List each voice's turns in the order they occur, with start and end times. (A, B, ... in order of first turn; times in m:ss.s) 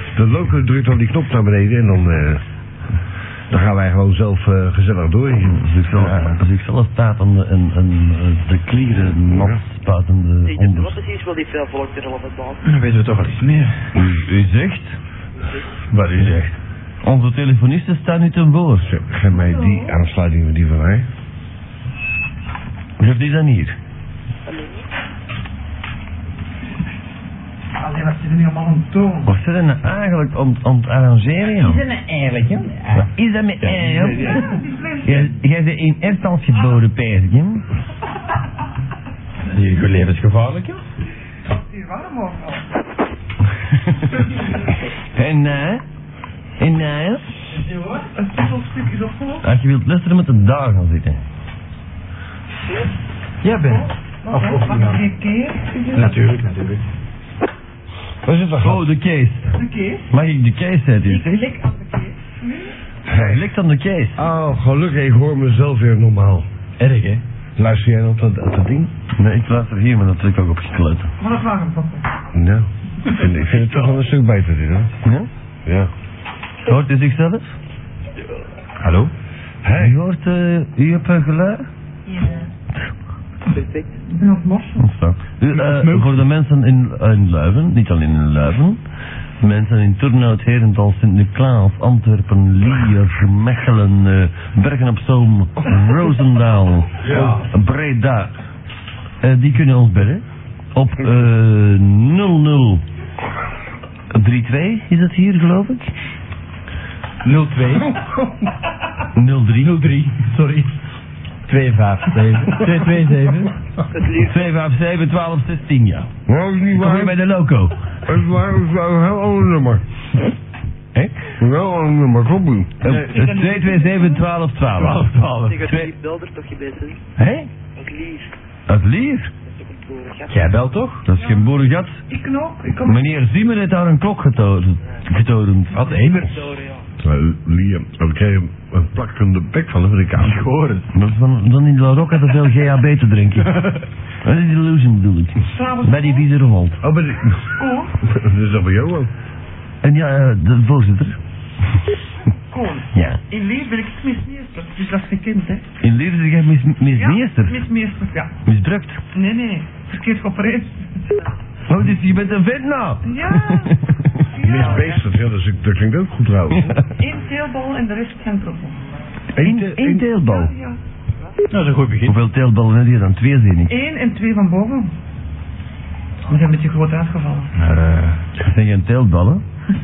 0:00.1-0:02.4 A
0:03.5-0:05.7 A
0:05.4-0:11.0 B
0:09.3-0:09.6 A
0:10.4-0:12.6 C
0:12.6-0:13.9 D
0:14.0-0:15.0 B
0:15.9-0:16.5 D
0:17.0-0:18.9 B
0:18.8-0:21.1 A
0:23.0-0:23.8 B
0:24.4-0:24.9 C
0:27.8-0:29.3 E
0:29.2-0:31.9 B
0:31.6-0:33.0 D
0:32.9-0:34.5 B
0:33.6-0:34.4 D
0:34.2-0:35.3 E
0:35.0-0:37.6 B
0:39.5-0:40.8 D
0:41.5-0:42.7 E
0:43.9-0:44.2 B
0:45.1-0:45.8 B
0:46.6-0:47.3 B
0:47.5-0:48.0 D
0:48.2-0:49.4 E
0:49.4-0:51.2 B
0:53.4-0:55.0 D
0:53.5-0:56.2 E
0:55.9-0:56.8 D
0:58.2-0:58.9 A
0:58.6-0:59.5 B
0:59.5-1:00.1 E
1:00.1-1:01.5 B
1:01.0-1:02.7 E
1:03.1-1:03.4 A
1:03.1-1:04.2 B
1:04.2-1:06.5 A
1:06.8-1:07.2 D
1:07.6-1:08.9 A
1:09.2-1:11.1 B
1:11.2-1:12.0 E
1:12.3-1:15.0 A
1:15.0-1:15.3 B
1:15.6-1:15.9 A
1:16.6-1:17.5 B
1:18.8-1:19.1 D
1:19.6-1:20.0 A
1:19.7-1:21.6 B
1:23.5-1:23.9 C
1:24.1-1:24.9 E
1:24.8-1:28.8 B
1:25.5-1:26.2 D
1:29.4-1:38.3 B
1:37.0-1:37.4 D
1:39.2-1:40.2 B
1:40.7-1:42.8 B
1:44.1-1:45.9 B
1:47.2-1:47.9 D
1:49.2-1:49.8 B
1:49.6-1:50.7 D
1:51.5-1:53.5 D
1:53.9-1:54.4 C
1:54.2-1:56.1 B
1:56.3-1:57.2 A
1:56.7-1:57.7 B
1:58.0-1:59.8 A
2:01.4-2:02.8 A
2:02.8-2:05.0 B
2:02.8-2:03.4 D
2:03.2-2:04.2 E
2:04.8-2:05.6 D
2:05.4-2:07.0 C
2:05.6-2:05.9 B
2:07.2-2:07.5 B
2:07.8-2:08.3 C
2:08.7-2:09.3 B
2:09.4-2:10.4 C
2:10.3-2:11.0 D
2:11.0-2:12.0 B
2:11.1-2:11.5 E
2:12.1-2:13.1 E
2:12.8-2:15.8 B
2:15.7-2:16.4 D
2:15.8-2:16.8 C
2:17.0-2:20.4 A
2:20.2-2:20.9 D
2:20.9-2:23.5 B
2:23.4-2:23.8 D
2:24.2-2:26.8 B
2:25.4-2:26.3 E
2:26.8-2:27.5 A
2:27.6-2:27.9 E
2:28.0-2:29.1 A
2:29.8-2:31.2 B
2:32.5-2:35.7 E
2:32.9-2:33.2 B
2:35.8-2:37.6 B
2:36.9-2:38.3 E
2:38.4-2:39.0 B
2:39.1-2:40.8 E
2:41.7-2:44.2 B
2:43.0-2:43.7 E
2:44.3-2:45.0 E
2:44.4-2:46.8 A
2:46.6-2:46.8 B
2:47.0-2:48.8 E
2:49.3-2:50.1 A
2:49.4-2:50.5 B
2:50.2-2:50.8 E
2:51.5-2:52.2 D
2:52.1-2:53.7 B
2:53.7-2:54.9 E
2:56.3-2:57.5 E
2:57.5-2:58.2 D
2:58.4-2:59.4 B